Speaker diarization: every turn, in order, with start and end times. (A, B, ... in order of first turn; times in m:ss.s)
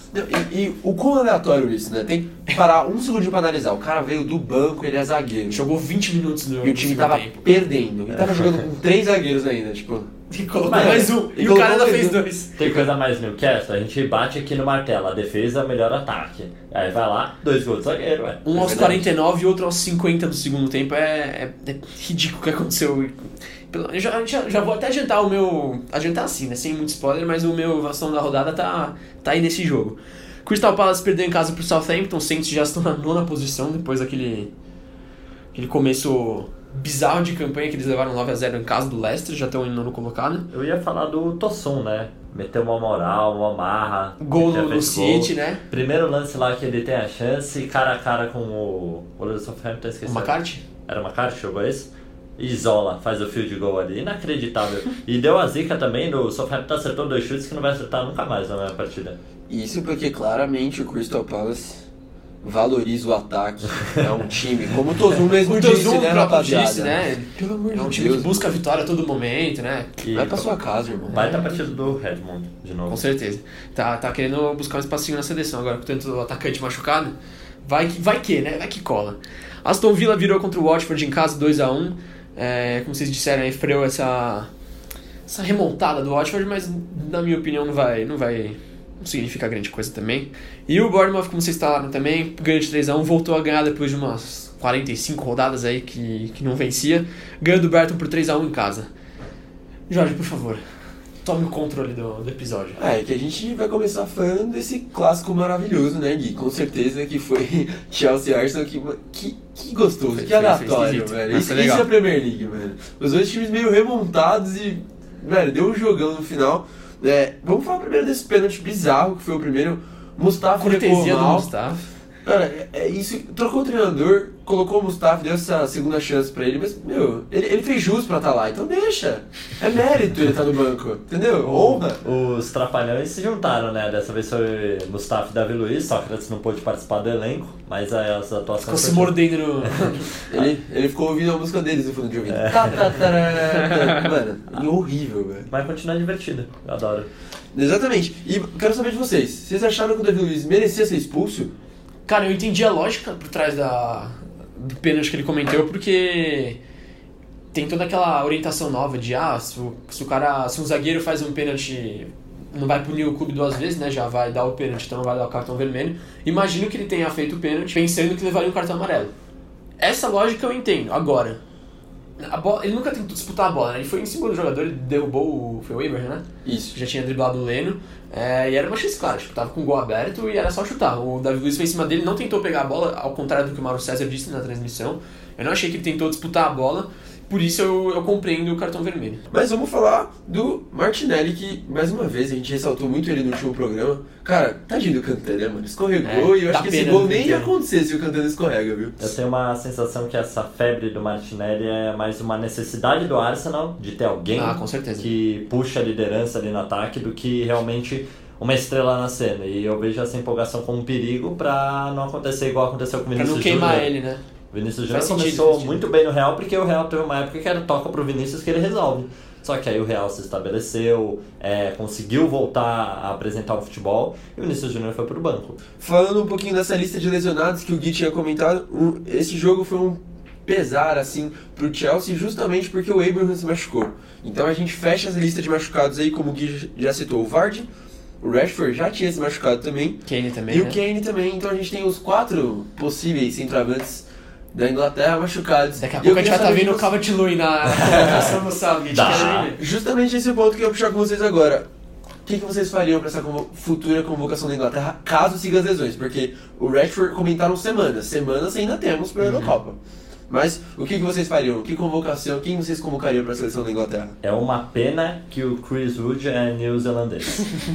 0:00.1-0:05.6 A
0:05.5-0:07.5 B
0:06.6-0:10.1 A
0:10.3-0:12.6 B
0:10.6-0:11.1 C
0:10.7-0:12.8 A
0:12.6-0:18.4 C
0:18.4-0:23.2 B
0:18.5-0:19.1 A
0:23.7-0:34.5 B
0:35.5-0:40.5 B
0:40.5-0:59.2 C
0:44.2-0:45.6 B
0:50.0-0:50.6 B
0:59.5-1:01.8 A
1:02.4-1:08.4 A
1:05.4-1:10.0 B
1:10.0-1:10.5 C
1:10.1-1:11.2 A
1:11.1-1:11.6 B
1:11.1-1:13.0 C
1:12.9-1:24.5 B
1:25.3-1:38.9 B
1:39.9-1:40.6 B
1:41.2-1:42.8 B
1:42.8-2:01.5 A
1:50.1-1:51.9 B
2:00.6-2:01.8 B
2:02.2-2:12.0 A
2:11.4-2:19.2 C
2:18.6-2:20.2 B
2:20.3-2:25.5 A
2:22.3-2:22.8 C
2:23.4-2:24.0 B
2:25.5-2:27.1 C
2:27.5-2:31.5 A
2:32.1-2:36.6 B
2:37.5-2:49.1 B
2:49.8-2:51.4 B
2:52.2-3:09.2 B
2:56.4-2:56.8 A
3:09.3-3:19.1 A
3:16.0-3:17.5 B
3:19.0-3:33.9 C
3:24.3-3:25.1 B
3:33.2-3:34.2 B
3:34.5-3:45.6 C
3:34.9-3:35.8 B
3:45.8-3:57.7 A
3:58.2-4:06.9 A
4:00.0-4:00.8 B
4:05.8-4:09.6 B
4:08.9-4:09.5 C
4:09.0-4:11.7 A
4:12.3-4:19.8 A
4:20.3-4:24.2 A
4:24.2-4:27.4 C